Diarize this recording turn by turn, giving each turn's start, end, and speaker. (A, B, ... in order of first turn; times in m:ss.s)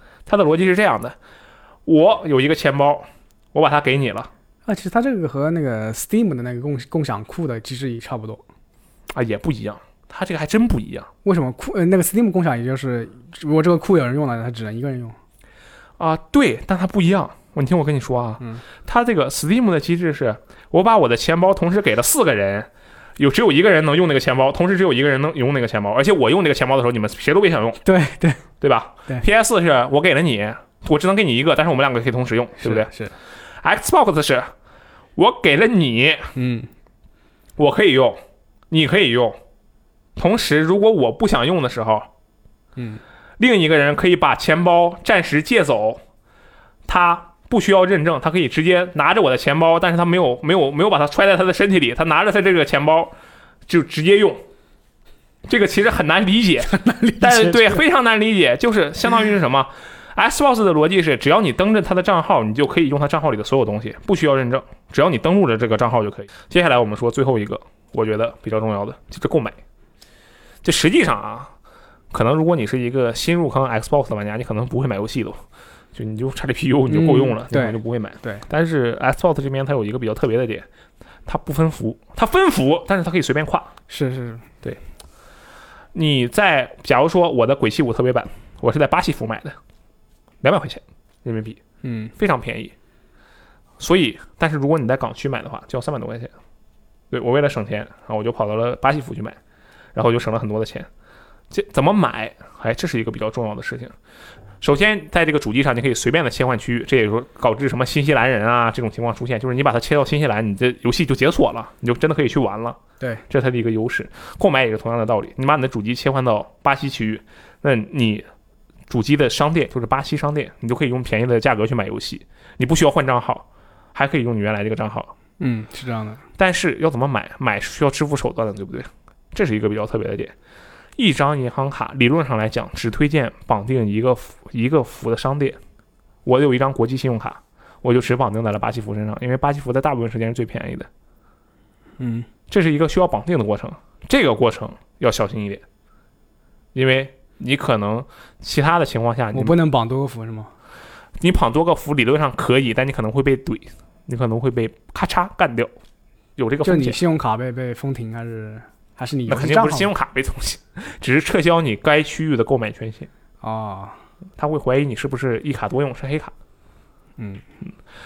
0:00.3-0:01.2 A
0:01.9-0:04.3 A
0:04.7-0:08.4 B
0:09.1-0:11.1 A
0:11.2-0:15.2 B
0:16.0-0:27.8 A
0:27.8-0:28.4 B
0:28.6-0:32.9 A
0:32.6-0:33.1 B
0:33.6-0:34.5 A
0:35.2-0:36.3 A
0:36.4-0:36.7 B
0:37.6-0:38.2 A
0:38.7-0:39.4 A
0:40.2-0:42.1 A
0:42.8-0:43.0 B
0:43.4-0:46.0 A
0:46.9-0:53.1 A
0:53.7-0:54.5 A
0:55.5-1:09.6 A
0:56.7-0:57.8 B
1:10.6-1:11.5 A
1:12.1-1:15.4 A
1:15.9-1:20.7 A
1:16.9-1:18.4 B
1:21.3-1:23.7 A
1:23.9-1:24.5 B
1:25.9-1:29.6 A
1:30.4-1:31.6 A
1:31.8-1:32.1 B
1:32.2-1:32.7 A
1:33.8-1:36.3 A
1:37.1-1:39.4 A
1:39.9-1:40.9 A
1:41.5-1:43.9 A
1:44.6-1:52.8 A
1:53.3-1:58.3 A
1:58.9-2:05.1 A
2:05.4-2:06.2 B
2:06.4-2:10.3 A
2:11.0-2:15.6 A
2:16.2-2:20.9 A
2:22.0-2:22.3 B
2:22.5-2:25.6 A
2:26.7-2:29.6 A
2:29.3-2:30.5 B
2:31.2-2:35.7 A
2:36.4-2:37.0 A
2:36.6-2:39.9 B
2:39.3-2:43.1 A
2:43.4-2:44.0 B
2:44.4-2:46.3 A
2:47.2-2:47.4 B